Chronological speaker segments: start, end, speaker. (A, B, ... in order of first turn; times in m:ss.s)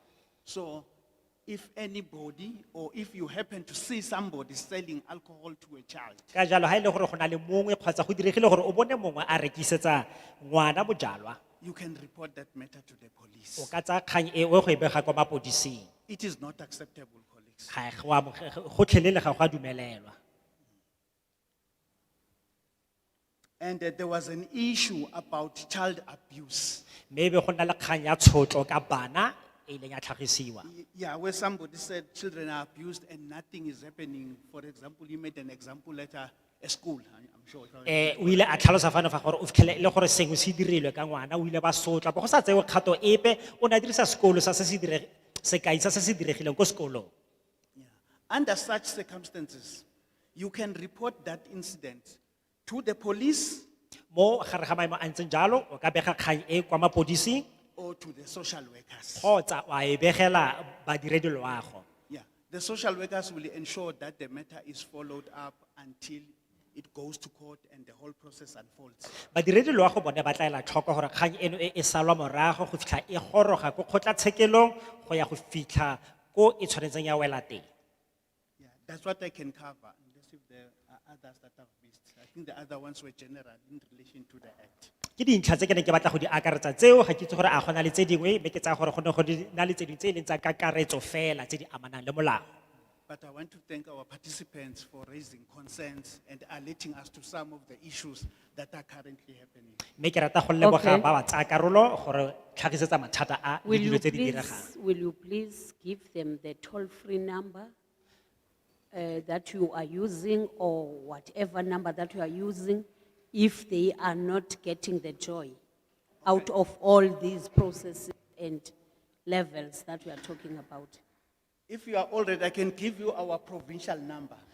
0:00.4-0:00.9 A
0:01.5-0:06.3 A
0:06.4-0:11.4 B
0:11.6-0:13.7 A
0:13.6-0:15.9 B
0:16.1-0:17.7 A
0:17.7-0:20.2 B
0:23.6-0:26.9 A
0:27.1-0:30.7 B
0:30.6-0:38.7 A
0:37.9-0:47.1 B
0:47.8-0:53.7 A
0:54.1-0:57.4 B
0:57.8-0:59.3 A
0:59.2-1:01.8 B
1:02.1-1:09.2 A
1:09.3-1:17.6 B
1:18.6-1:24.9 A
1:25.2-1:32.5 B
1:33.1-1:39.8 A
1:40.0-1:44.7 B
1:40.6-1:41.1 C
1:43.6-1:47.7 C
1:48.9-1:55.6 C
1:56.2-1:56.5 A
1:56.3-1:58.7 C
1:59.3-2:01.0 C
2:01.7-2:04.4 A